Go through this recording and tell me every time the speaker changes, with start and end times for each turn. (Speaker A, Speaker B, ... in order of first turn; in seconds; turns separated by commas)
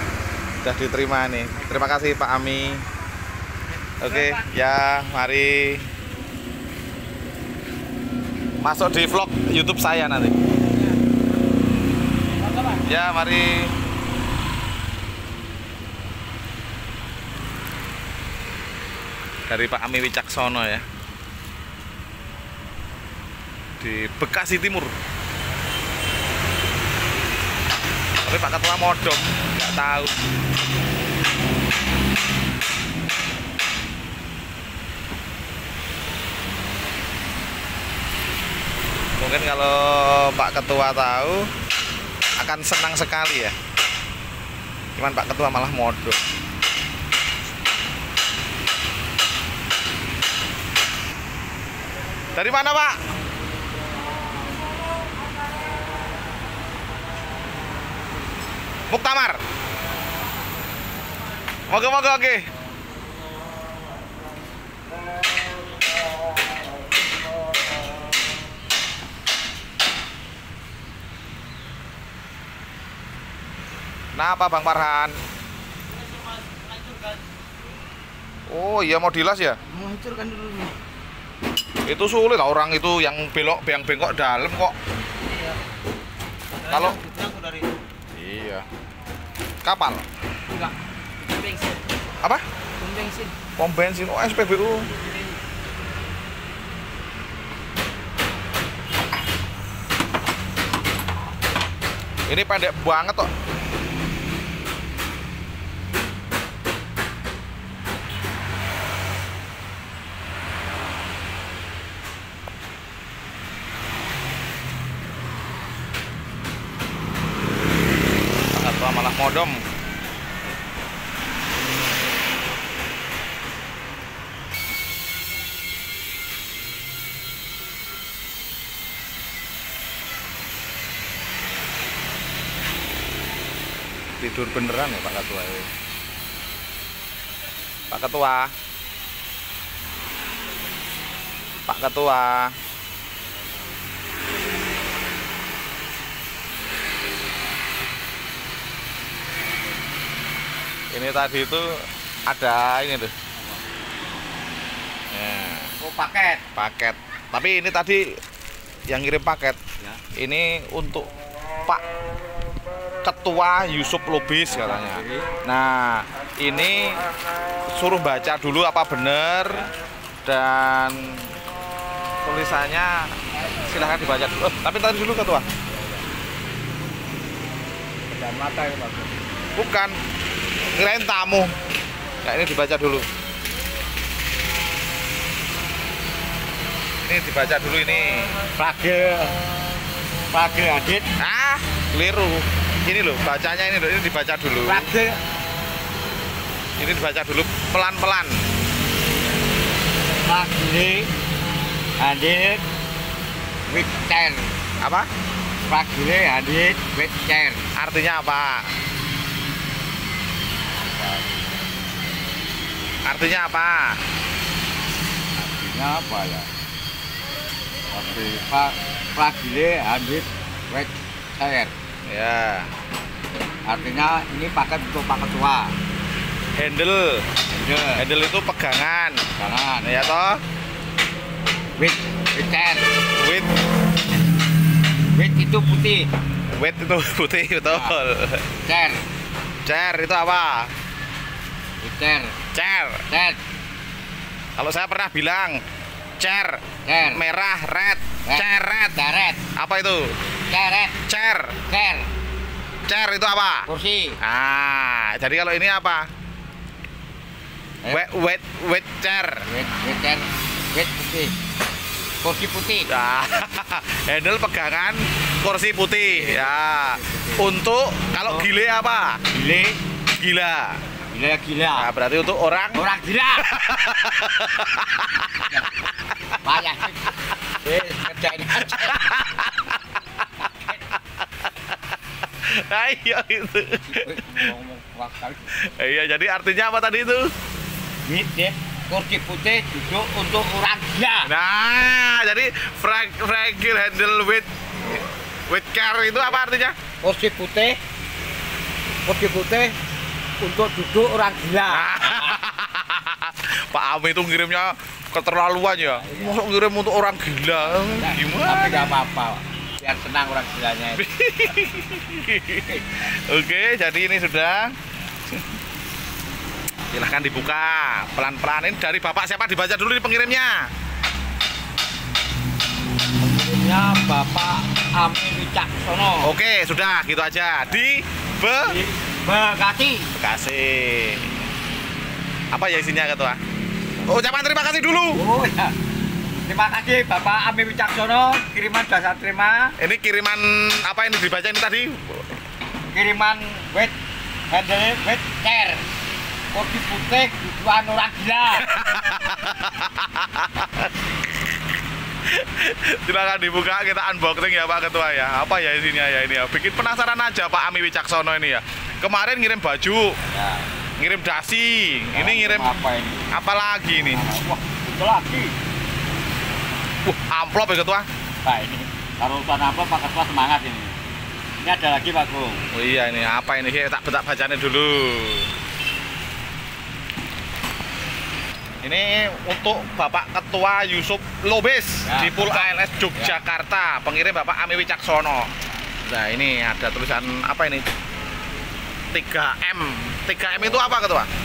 Speaker A: 0.6-2.8, Speaker A: 4.0-5.9, Speaker A: 8.6-10.4, Speaker A: 12.7-13.7, Speaker A: 19.5-20.9, Speaker A: 23.8-24.9, Speaker A: 28.2-30.1, Speaker A: 39.2-41.5, Speaker A: 42.4-43.5, Speaker A: 45.0-46.2, Speaker A: 52.4-53.0, Speaker A: 58.9-59.4, Speaker A: 61.7-62.5, Speaker A: 74.2-75.2, Speaker A: 78.5-79.6, Speaker B: 79.7-80.7, Speaker A: 81.8-84.8, Speaker A: 86.7-87.0, Speaker A: 88.1-88.7, Speaker A: 89.6-90.0, Speaker B: 92.8-93.3, Speaker A: 93.6-94.9, Speaker A: 102.3-103.3, Speaker A: 118.5-119.6, Speaker A: 134.2-135.7, Speaker A: 137.9-138.5, Speaker A: 141.7-142.5, Speaker A: 150.9-151.7, Speaker A: 152.3-153.1, Speaker A: 155.1-155.7, Speaker B: 155.8-156.5, Speaker A: 156.6-158.2, Speaker A: 158.9-159.6, Speaker A: 160.2-161.1, Speaker A: 163.0-167.0, Speaker B: 164.5-165.3, Speaker A: 167.7-169.7, Speaker B: 169.4-169.7, Speaker A: 170.2-171.3, Speaker A: 172.2-175.5, Speaker B: 175.7-176.0, Speaker B: 178.1-179.2, Speaker A: 179.6-179.9, Speaker A: 180.7-181.5, Speaker A: 182.2-183.1, Speaker A: 187.1-188.3, Speaker B: 188.6-189.4, Speaker B: 190.3-191.1, Speaker A: 191.2-194.9, Speaker B: 194.6-195.2, Speaker A: 196.8-198.3, Speaker B: 200.2-201.1, Speaker B: 202.0-202.6, Speaker B: 203.7-204.5, Speaker A: 204.8-205.1, Speaker B: 205.7-207.6, Speaker A: 207.8-208.7, Speaker B: 210.8-211.3, Speaker A: 213.1-214.0, Speaker B: 215.4-216.5, Speaker B: 217.9-221.7, Speaker A: 222.1-222.7, Speaker B: 223.7-225.7, Speaker A: 226.6-227.3, Speaker B: 227.5-228.1, Speaker A: 228.0-229.3, Speaker B: 229.4-230.1, Speaker A: 229.8-230.4, Speaker B: 231.8-232.9, Speaker A: 233.2-233.5, Speaker B: 235.2-236.1, Speaker A: 236.6-238.5, Speaker B: 237.7-237.9, Speaker B: 238.7-239.0, Speaker A: 239.7-240.7, Speaker B: 241.8-242.3, Speaker A: 242.5-243.0, Speaker B: 243.1-243.4, Speaker A: 244.6-245.6, Speaker A: 246.2-249.0, Speaker B: 246.9-247.2, Speaker B: 248.3-249.4, Speaker A: 249.6-250.1, Speaker B: 250.5-251.0, Speaker A: 251.1-251.6, Speaker B: 251.7-252.1, Speaker A: 252.9-253.7, Speaker B: 253.7-254.2, Speaker A: 254.2-256.1, Speaker A: 257.9-259.4, Speaker B: 259.5-261.3, Speaker B: 262.2-262.9, Speaker A: 262.9-269.2, Speaker B: 266.1-267.6, Speaker B: 268.2-268.5, Speaker B: 269.3-269.8, Speaker A: 270.2-270.8, Speaker B: 271.1-271.9, Speaker A: 271.8-272.8, Speaker B: 272.7-273.5, Speaker A: 273.4-275.6, Speaker B: 276.4-279.0, Speaker A: 278.5-280.2, Speaker A: 281.2-281.8, Speaker A: 282.4-284.5, Speaker B: 283.9-285.5, Speaker A: 285.5-287.3, Speaker B: 288.1-291.3, Speaker A: 291.2-296.8, Speaker B: 297.0-297.8, Speaker B: 299.1-299.7, Speaker B: 300.4-302.4, Speaker A: 301.7-308.9, Speaker B: 305.6-306.4, Speaker B: 307.6-311.1, Speaker A: 311.0-314.8, Speaker A: 316.9-320.7, Speaker B: 323.2-326.3, Speaker A: 326.2-328.8, Speaker B: 328.6-330.1, Speaker A: 330.1-331.3, Speaker A: 332.5-333.4, Speaker A: 334.1-335.2, Speaker B: 335.1-335.8, Speaker B: 336.5-339.8, Speaker A: 339.8-342.2, Speaker B: 342.9-343.9, Speaker B: 344.5-345.9, Speaker B: 346.5-348.7, Speaker A: 348.6-350.9, Speaker A: 352.3-360.2, Speaker B: 360.3-360.7, Speaker A: 361.0-362.7, Speaker B: 362.1-363.3, Speaker A: 363.3-364.3, Speaker B: 364.1-365.5, Speaker A: 367.0-368.1, Speaker B: 368.4-370.9, Speaker B: 371.6-372.6, Speaker A: 372.7-375.5, Speaker A: 378.8-385.5, Speaker B: 382.1-383.4, Speaker A: 386.1-387.9, Speaker A: 389.1-391.3